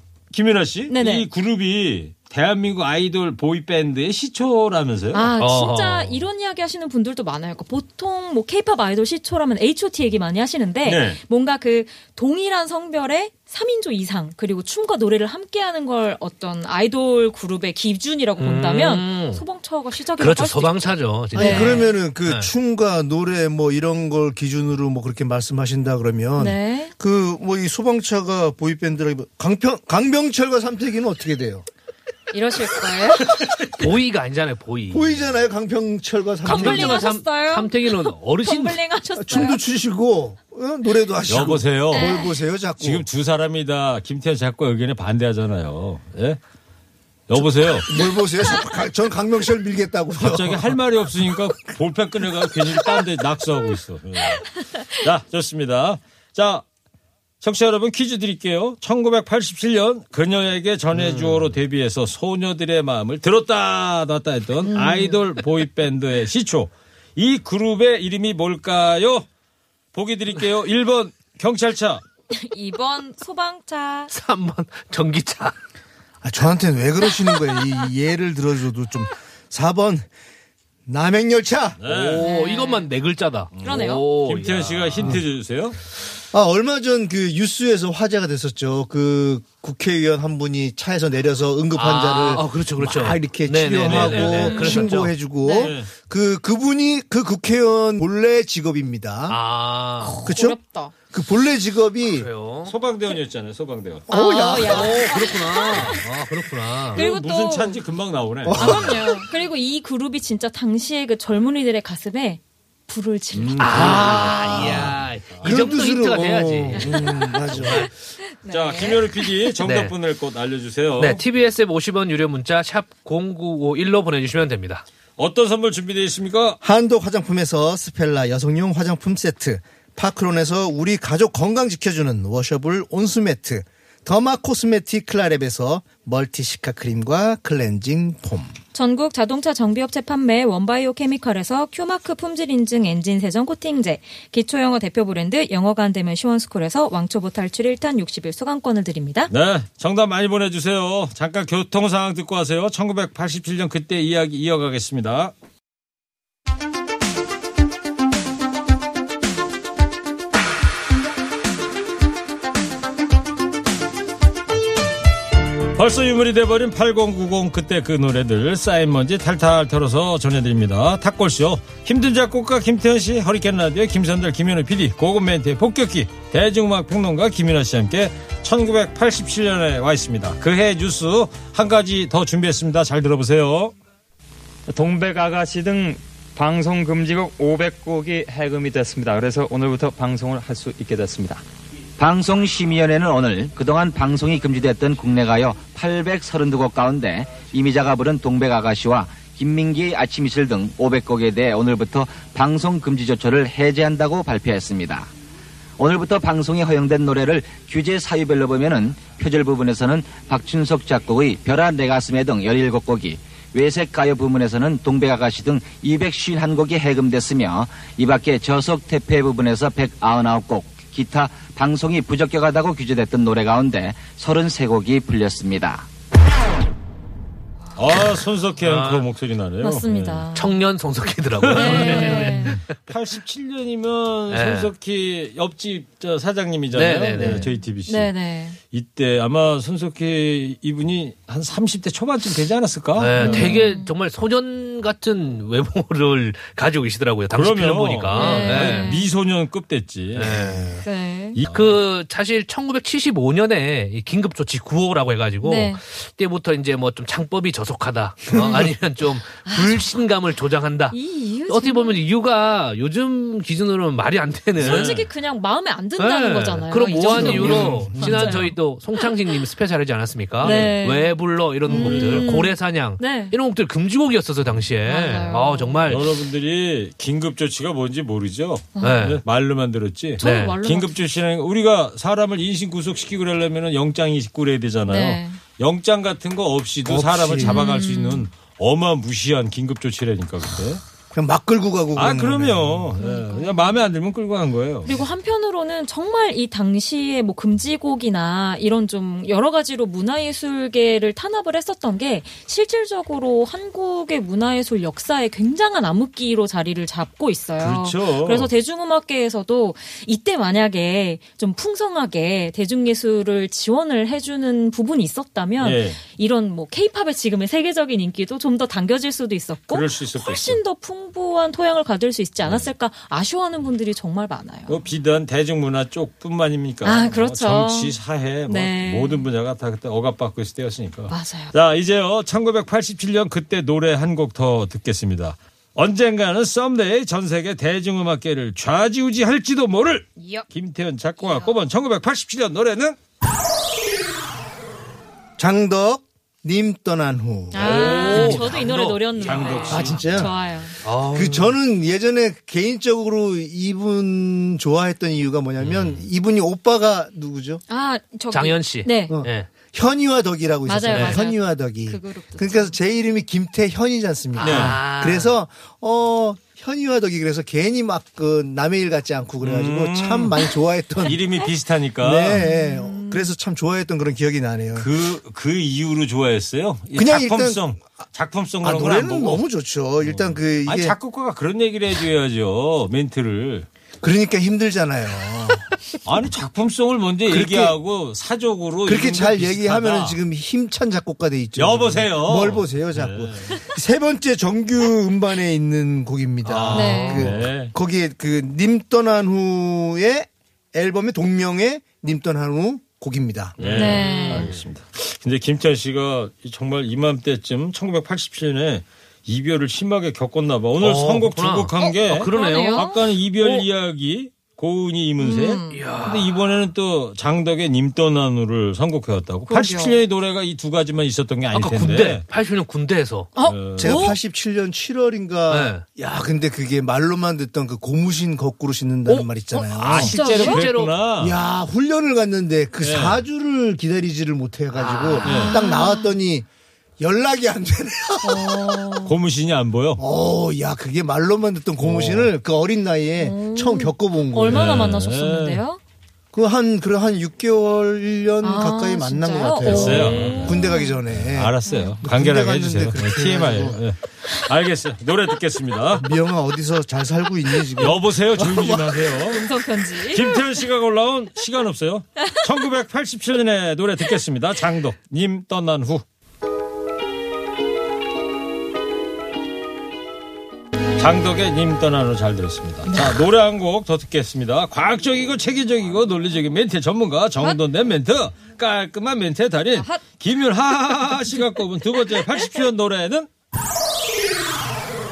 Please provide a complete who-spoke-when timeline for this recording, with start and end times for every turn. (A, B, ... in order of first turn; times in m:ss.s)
0:00.3-0:05.3 A
0:00.9-0:01.2 B
0:05.1-0:21.9 B
0:05.4-0:06.2 C
0:10.8-0:11.2 A
0:18.4-0:19.4 C
0:20.2-0:22.5 C
0:21.3-0:31.6 D
0:26.4-0:26.9 B
0:32.3-0:33.3 B
0:33.7-0:35.2 C
0:34.9-0:37.1 D
0:36.4-0:38.8 C
0:36.4-0:39.6 B
0:39.2-0:43.0 D
0:41.3-0:42.1 A
0:41.9-0:42.3 B
0:42.8-0:46.4 A
0:47.3-0:47.9 A
0:47.8-0:50.8 D
0:50.2-0:56.6 A
0:57.4-1:09.2 A
1:00.9-1:01.5 C
1:09.9-1:12.0 A
1:12.3-1:14.1 B
1:14.1-1:15.6 C
1:16.2-1:20.1 D
1:20.9-1:21.8 D
1:21.8-1:22.3 A
1:21.9-1:25.2 C
1:22.2-1:22.9 B
1:23.5-1:25.8 A
1:23.6-1:24.0 B
1:26.3-1:39.4 D
1:31.7-1:35.1 C
1:33.8-1:34.3 A
1:34.2-1:35.7 B
1:35.6-1:35.9 A
1:39.3-1:40.2 C
1:40.0-1:40.9 B
1:40.2-1:40.6 D
1:41.1-1:42.3 D
1:42.1-1:42.7 C
1:42.6-1:44.1 A
1:44.1-1:45.1 D
1:44.1-1:46.1 B
1:44.6-1:47.0 C
1:46.9-1:47.8 B
1:46.9-1:48.9 A
1:48.4-1:49.0 D
1:48.5-1:53.9 B
1:53.3-1:55.5 A
1:53.6-1:57.9 C
1:53.7-1:57.9 D
1:56.8-1:57.6 B
1:58.3-1:59.5 B
1:58.5-2:01.2 A
1:59.6-1:59.9 C
2:01.0-2:04.8 C
2:05.2-2:06.6 A
2:06.6-2:18.5 D
2:18.7-2:29.3 B
2:29.3-2:35.3 A
2:45.7-3:03.7 A
3:04.7-3:11.4 E
3:12.0-3:25.1 F
3:25.8-3:45.8 F
3:47.7-3:50.2 A
3:48.6-3:49.1 C
3:49.6-3:50.5 B
3:50.3-3:52.9 C
3:51.4-3:58.1 A
3:51.5-3:52.6 B
3:54.3-3:54.7 C
3:56.7-3:57.5 C
3:57.2-3:58.6 B
3:58.7-4:03.5 A
4:03.0-4:09.0 C
4:03.2-4:03.9 B
4:07.3-4:10.7 A
4:08.1-4:09.0 B
4:10.1-4:10.8 C
4:10.8-4:11.4 B
4:11.3-4:11.8 A
4:11.4-4:21.0 C
4:15.4-4:15.8 B
4:18.4-4:18.7 B
4:19.4-4:20.0 B
4:20.9-4:22.0 B
4:21.5-4:25.1 C
4:24.6-4:25.0 A
4:24.6-4:28.6 B
4:26.0-4:36.1 C
4:27.0-4:28.1 A
4:27.9-4:28.2 D
4:30.4-4:33.3 B
4:30.4-4:30.8 A
4:31.7-4:32.3 A
4:34.8-4:36.0 B
4:35.9-4:50.8 A
4:38.8-4:39.0 B
4:38.8-4:39.2 C
4:40.2-4:41.0 B
4:40.2-4:40.6 C
4:44.9-4:45.4 B
4:46.8-4:47.6 D
4:47.4-4:48.3 B
4:51.1-4:53.0 D
4:52.0-4:55.0 A
4:53.0-4:53.7 B
4:54.8-5:24.8 B
5:07.6-5:08.5 A
5:15.6-5:16.0 A
5:19.7-5:20.6 A
5:22.4-5:22.7 A
5:24.7-5:43.0 A
5:26.8-5:28.0 B
5:28.5-5:29.2 B
5:31.1-5:31.5 B
5:41.2-5:41.5 B
5:45.4-5:48.5 D
5:47.5-5:50.8 B
5:47.6-5:50.3 A
5:47.8-5:48.7 C
5:49.3-5:49.6 C
5:49.7-5:50.3 D
5:50.8-5:51.6 C
5:51.1-5:57.6 D
5:57.7-5:59.2 B
5:58.3-5:59.5 C
5:59.1-6:11.2 D
6:00.6-6:02.8 B
6:00.9-6:01.2 C
6:04.4-6:05.3 C
6:04.4-6:04.8 A
6:09.4-6:10.4 A
6:11.0-6:12.4 A
6:12.0-6:14.9 D
6:12.3-6:13.3 B
6:14.8-6:19.4 A
6:16.9-6:17.6 D
6:18.6-6:20.9 D
6:20.0-6:23.7 A
6:24.0-6:25.7 D
6:26.0-6:30.2 A
6:27.3-6:27.7 D
6:28.8-6:43.6 D
6:31.6-6:33.6 A
6:36.4-6:37.7 A
6:36.7-6:37.3 B
6:43.6-6:44.4 C
6:43.6-7:02.2 A
6:43.7-6:44.5 B
6:50.8-6:53.6 C
6:51.8-6:53.0 B
6:55.2-6:55.8 B
6:55.7-6:56.4 C
6:59.5-7:00.0 B
7:01.5-7:03.3 C
7:03.3-7:04.2 B
7:03.4-7:03.9 A
7:03.8-7:10.1 D
7:05.5-7:05.8 C
7:09.1-7:10.9 C
7:09.8-7:11.4 A
7:10.0-7:10.6 B
7:11.2-7:16.4 D
7:12.8-7:13.2 A
7:14.7-7:15.5 C
7:15.2-7:16.1 B
7:15.2-7:15.5 A
7:17.0-7:18.9 D
7:18.2-7:19.1 B
7:19.0-7:20.0 A
7:20.0-7:24.8 D
7:21.8-7:22.3 A
7:23.2-7:25.8 B
7:24.5-7:25.6 A
7:26.3-7:33.8 D
7:28.4-7:31.0 B
7:29.7-7:30.6 A
7:31.1-7:36.0 A
7:31.6-7:31.9 B
7:36.0-7:39.1 D
7:37.8-7:46.0 A
7:39.3-7:40.4 B
7:51.0-8:03.3 A
7:52.9-7:53.1 B
7:59.8-8:00.0 B